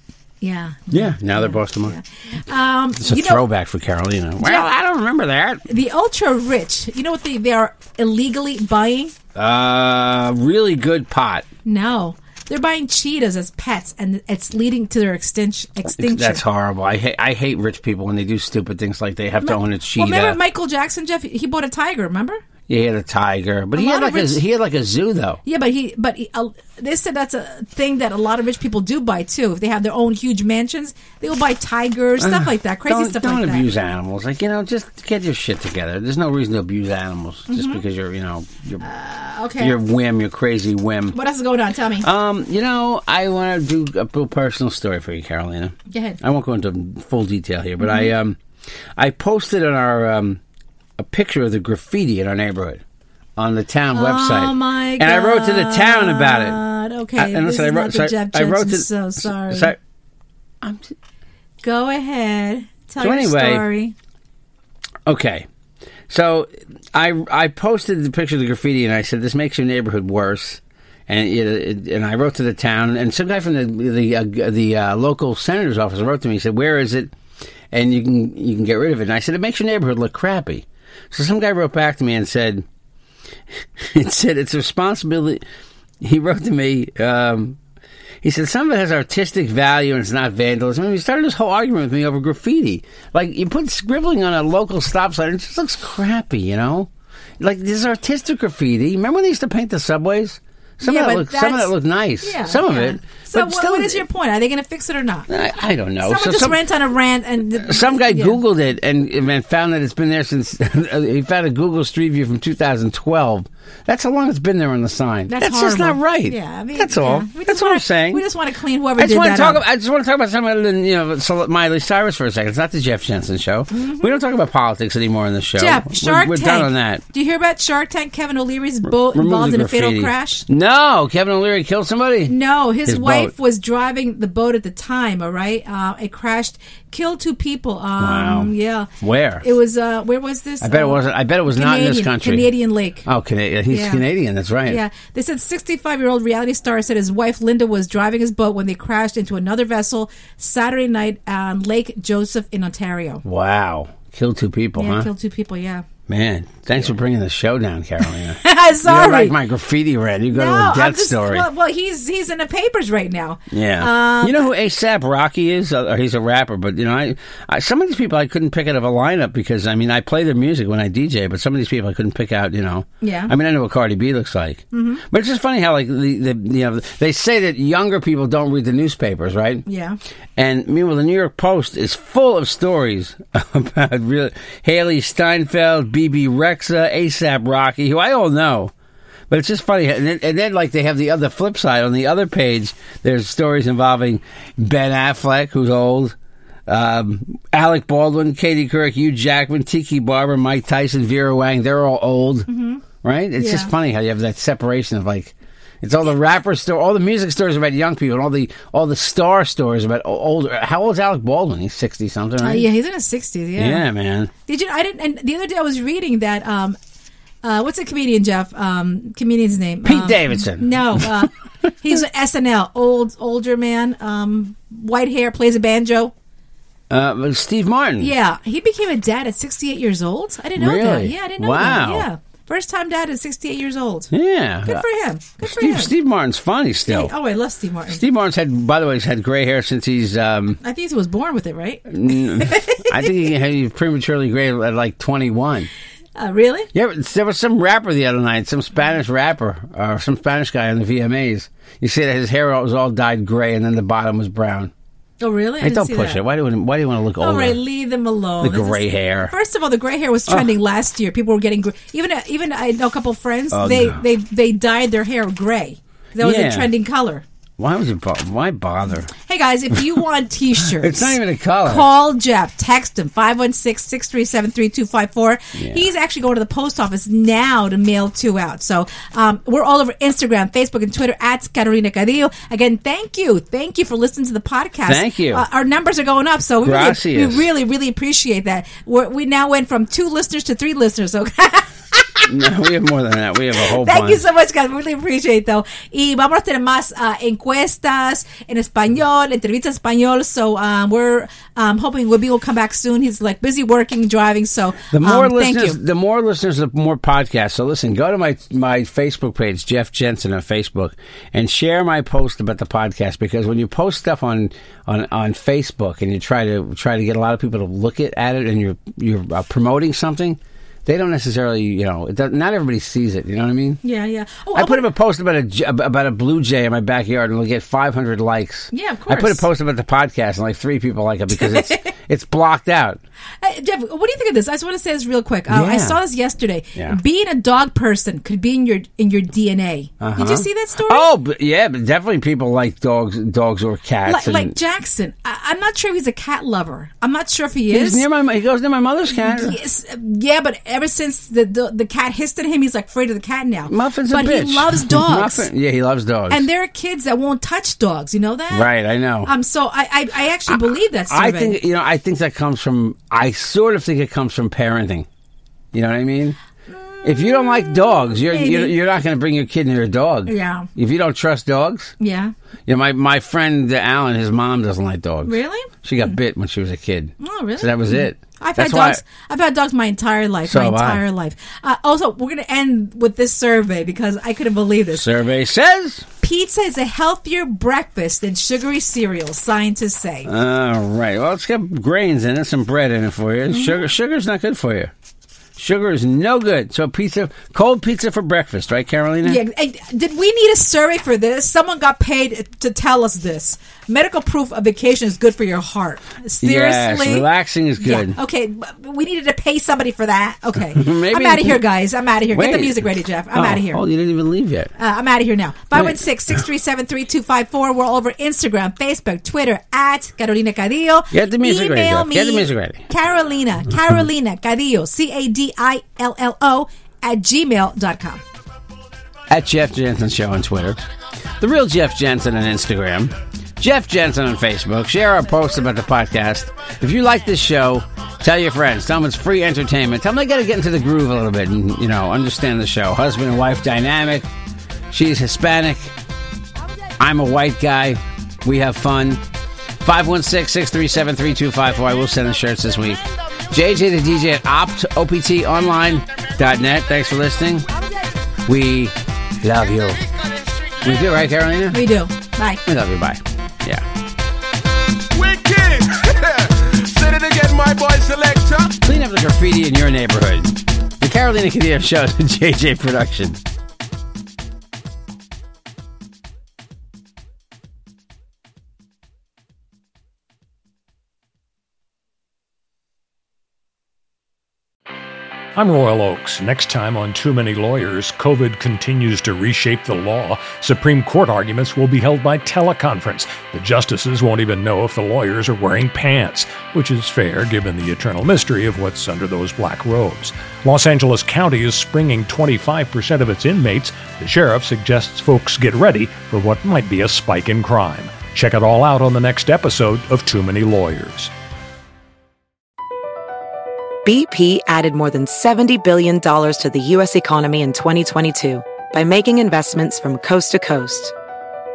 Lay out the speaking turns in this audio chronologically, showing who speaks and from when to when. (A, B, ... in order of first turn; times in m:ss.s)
0:00.4-0:03.4 A
0:00.9-0:02.0 B
0:03.0-0:05.6 B
0:04.4-0:04.7 A
0:05.7-0:09.1 A
0:09.3-0:11.4 B
0:11.6-0:16.4 A
0:16.0-0:20.4 B
0:19.4-0:22.4 A
0:22.7-0:25.4 B
0:23.7-0:24.4 A
0:25.4-0:33.7 A
0:32.2-0:38.8 B
0:37.5-0:37.8 A
0:38.8-0:39.8 A
0:39.6-0:41.2 B
0:41.1-0:42.1 A
0:42.0-0:48.4 B
0:45.9-0:46.2 A
0:47.8-0:48.1 A
0:49.0-0:50.4 B
0:51.0-0:52.8 B
0:53.4-0:56.6 B
0:53.9-0:59.7 A
0:57.2-0:59.8 B
1:00.6-1:00.9 B
1:01.6-1:03.9 A
1:03.0-1:03.6 B
1:05.0-1:05.5 B
1:06.1-1:17.1 B
1:17.7-1:22.6 B
1:23.8-1:25.4 B
1:26.0-1:27.6 B
1:28.2-1:44.0 B
1:40.8-1:45.3 A
1:45.3-1:46.6 B
1:46.0-1:48.4 A
1:47.6-1:58.2 B
1:55.3-1:59.6 A
1:59.0-2:07.0 B
2:03.7-2:04.1 A
2:05.6-2:10.4 A
2:08.8-2:12.3 B
2:12.3-2:23.0 A
2:12.8-2:13.3 B
2:18.0-2:19.4 B
2:20.6-2:22.5 B
2:23.0-2:24.8 B
2:23.7-2:24.0 A
2:24.6-2:33.2 A
2:33.2-2:35.1 B
2:34.8-2:35.8 A
2:36.1-2:41.5 B
2:38.3-2:39.4 A
2:40.3-2:44.4 A
2:43.5-2:59.6 B
2:53.0-2:53.3 A
2:54.7-2:55.0 A
2:59.7-3:00.0 A
3:00.4-3:08.7 B
3:09.3-3:16.2 B
3:16.7-3:22.5 B
3:22.5-3:22.8 A
3:23.0-3:32.6 B
3:23.4-3:23.7 A
3:32.4-3:33.8 A
3:33.6-3:34.3 B
3:34.4-3:36.8 A
3:37.4-3:46.1 A
3:39.8-3:41.2 B
3:46.9-3:48.1 B
3:48.0-3:54.1 A
3:50.6-3:52.1 B
3:54.1-3:54.8 B
3:54.6-3:55.9 A
3:55.4-3:57.1 B
3:56.9-3:58.0 A
3:57.9-4:00.6 B
4:00.6-4:03.1 A
4:01.9-4:05.7 B
4:06.2-4:06.7 A
4:06.7-4:14.7 B
4:15.2-4:16.2 A
4:15.6-4:17.6 B
4:17.2-4:27.2 A
4:18.4-4:19.3 B
4:20.3-4:20.5 B
4:23.5-4:24.0 B
4:26.2-4:26.7 B
4:27.6-4:29.1 B
4:29.2-4:52.3 A
4:30.6-4:31.9 B
4:35.6-4:35.8 B
4:44.9-4:45.4 B
4:46.6-4:47.4 B
4:52.3-4:54.2 B
4:53.5-5:05.8 A
5:04.9-5:23.8 B
5:23.8-5:24.8 A
5:24.5-5:33.0 B
5:28.7-5:29.4 A
5:31.3-5:31.9 A
5:33.4-5:41.1 A
5:35.5-5:36.0 B
5:40.0-5:44.6 B
5:44.0-5:48.0 A
5:47.7-5:49.6 B
5:49.1-5:55.5 A
5:53.7-5:56.5 B
5:56.3-5:58.7 A
5:58.5-5:59.3 B
5:59.2-6:01.6 A
6:01.1-6:05.1 B
6:05.7-6:06.4 B
6:06.7-6:08.7 A
6:07.0-6:11.9 B
6:10.3-6:10.7 A
6:12.0-6:12.3 A
6:12.7-6:19.0 B
6:15.2-6:15.7 A
6:17.2-6:25.1 A
6:20.4-6:21.0 B
6:24.9-6:26.0 B
6:26.2-6:30.3 A
6:30.2-6:34.9 B
6:35.6-6:39.4 B
6:39.2-6:47.3 A
6:46.4-6:48.2 B
6:47.8-6:53.8 A
6:50.6-6:51.6 B
6:52.3-6:54.7 B
6:54.8-7:08.2 A
7:01.1-7:02.9 B
7:09.3-7:10.8 B
7:11.4-7:24.3 B
7:24.9-7:25.9 B
7:27.0-7:29.2 B
7:29.8-7:37.7 B
7:38.4-7:40.0 B
7:40.4-7:40.8 C
7:40.8-7:41.9 B
7:41.7-7:42.6 A
7:42.6-7:43.8 B
7:45.1-7:48.8 C
7:48.8-7:53.4 B
8:05.6-8:31.3 D
8:34.0-8:41.1 E